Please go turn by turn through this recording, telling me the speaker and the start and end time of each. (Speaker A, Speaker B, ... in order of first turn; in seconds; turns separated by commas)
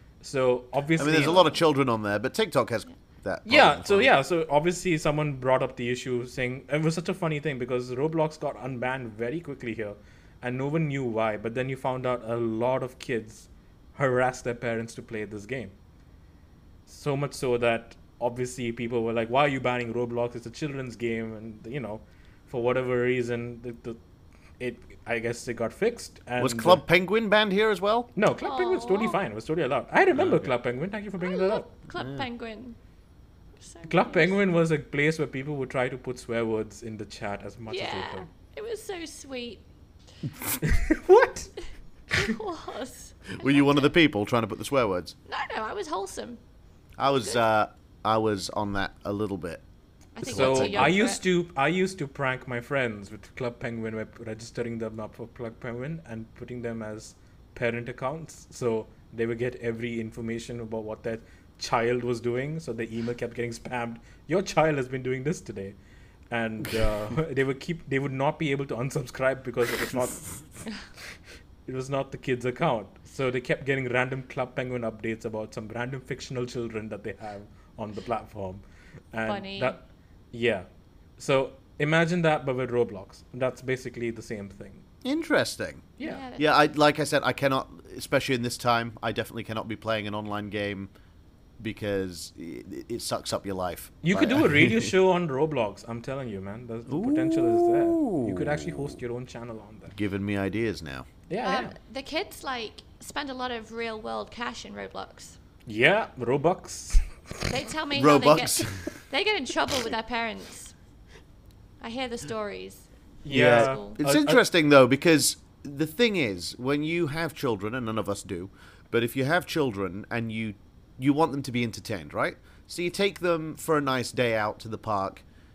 Speaker A: 0.2-1.6, Speaker B: 1.0-4.1, Speaker A: 3.4-15.7, Speaker A: 16.9-24.0, Speaker A: 24.6-26.8, Speaker B: 26.4-28.1, Speaker A: 28.1-31.6, Speaker C: 28.4-29.2, Speaker B: 30.1-30.5, Speaker C: 31.2-32.8, Speaker B: 31.9-32.2, Speaker C: 33.6-34.4, Speaker A: 33.9-38.3, Speaker C: 37.7-39.6, Speaker A: 40.6-41.5, Speaker C: 42.1-43.9, Speaker B: 43.4-45.1, Speaker C: 45.3-46.4, Speaker B: 47.0-49.6, Speaker C: 47.0-47.4, Speaker C: 50.1-51.2, Speaker B: 50.2-51.0, Speaker A: 50.3-65.8, Speaker A: 66.3-70.6, Speaker A: 71.7-80.7, Speaker C: 79.3-79.7, Speaker A: 81.2-84.8, Speaker B: 85.0-90.9, Speaker A: 86.0-86.2, Speaker C: 86.0-86.5, Speaker B: 91.6-94.9, Speaker A: 94.0-100.0, Speaker B: 96.9-99.0, Speaker B: 99.9-101.0, Speaker A: 101.3-101.7, Speaker C: 101.4-105.4, Speaker A: 105.7-107.5, Speaker C: 107.5-110.7, Speaker B: 107.9-108.9, Speaker C: 111.8-112.9, Speaker A: 113.2-114.4, Speaker B: 113.3-125.2, Speaker C: 113.4-113.9